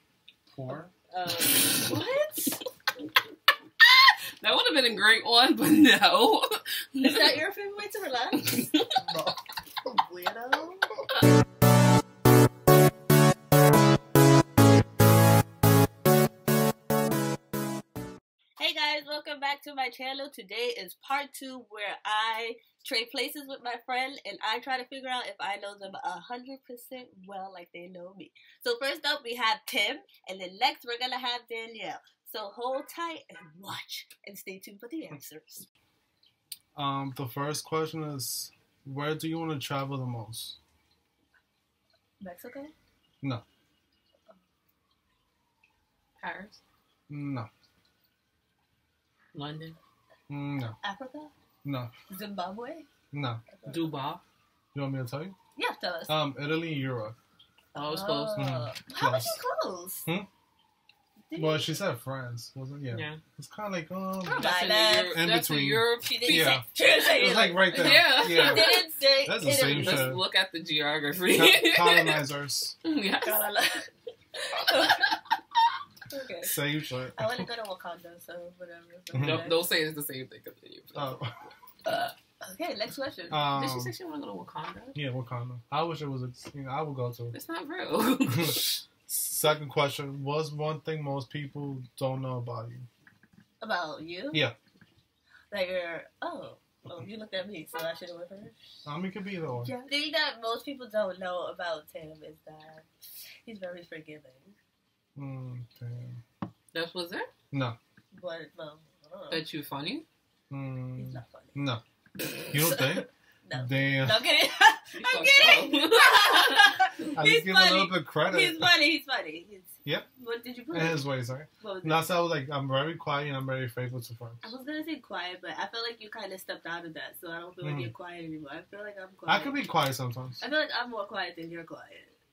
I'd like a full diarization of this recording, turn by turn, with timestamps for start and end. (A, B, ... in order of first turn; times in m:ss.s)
0:00.5-0:00.9 A
0:01.1-0:02.6 B
0:03.8-0:07.4 C
0:07.0-0:08.7 B
0:08.4-0:08.8 C
0:09.0-0:09.4 A
0:09.8-0:10.9 B
0:18.6-0:35.7 B
0:36.7-0:40.6 A
0:42.2-0:42.7 B
0:46.2-0:46.6 C
0:47.1-0:47.5 A
0:49.3-0:49.8 C
0:50.3-0:50.8 A
0:50.8-0:51.3 B
0:51.6-0:51.9 A
0:52.1-0:52.9 B
0:53.1-0:53.4 A
0:53.5-0:54.0 B
0:53.7-0:54.2 C
0:54.7-0:55.4 A
0:55.6-0:56.2 B
0:56.1-0:57.2 A
0:57.7-0:58.5 C
0:57.8-1:00.1 B
0:58.4-0:59.4 A
1:01.3-1:01.8 B
1:01.3-1:04.5 A
1:02.9-1:03.2 C
1:04.2-1:05.2 B
1:04.3-1:06.6 C
1:05.1-1:10.2 A
1:06.1-1:10.1 B
1:07.7-1:08.8 C
1:09.5-1:12.3 C
1:11.3-1:12.7 A
1:12.8-1:13.4 C
1:13.2-1:15.2 B
1:14.6-1:15.2 C
1:16.1-1:16.6 B
1:16.4-1:17.5 A
1:17.1-1:19.7 B
1:19.1-1:19.5 A
1:19.2-1:21.2 C
1:20.9-1:21.4 A
1:21.8-1:22.1 C
1:22.4-1:23.5 B
1:23.3-1:23.9 A
1:23.5-1:25.0 C
1:25.0-1:27.3 A
1:27.3-1:28.8 C
1:28.3-1:32.9 A
1:33.6-1:34.4 B
1:35.5-1:38.6 B
1:38.8-1:39.7 A
1:39.6-1:42.9 B
1:43.4-1:44.6 B
1:45.2-1:46.2 A
1:46.7-1:47.3 C
1:47.5-1:47.8 A
1:48.1-1:49.4 B
1:49.3-1:50.0 C
1:50.5-1:51.8 A
1:51.0-1:51.6 B
1:52.5-1:54.2 A
1:52.6-2:01.1 B
1:54.9-1:56.7 C
1:57.1-1:58.7 A
2:00.7-2:04.5 A
2:01.6-2:02.1 B
2:04.4-2:09.6 B
2:07.6-2:07.9 A
2:09.3-2:10.4 A
2:10.4-2:12.1 B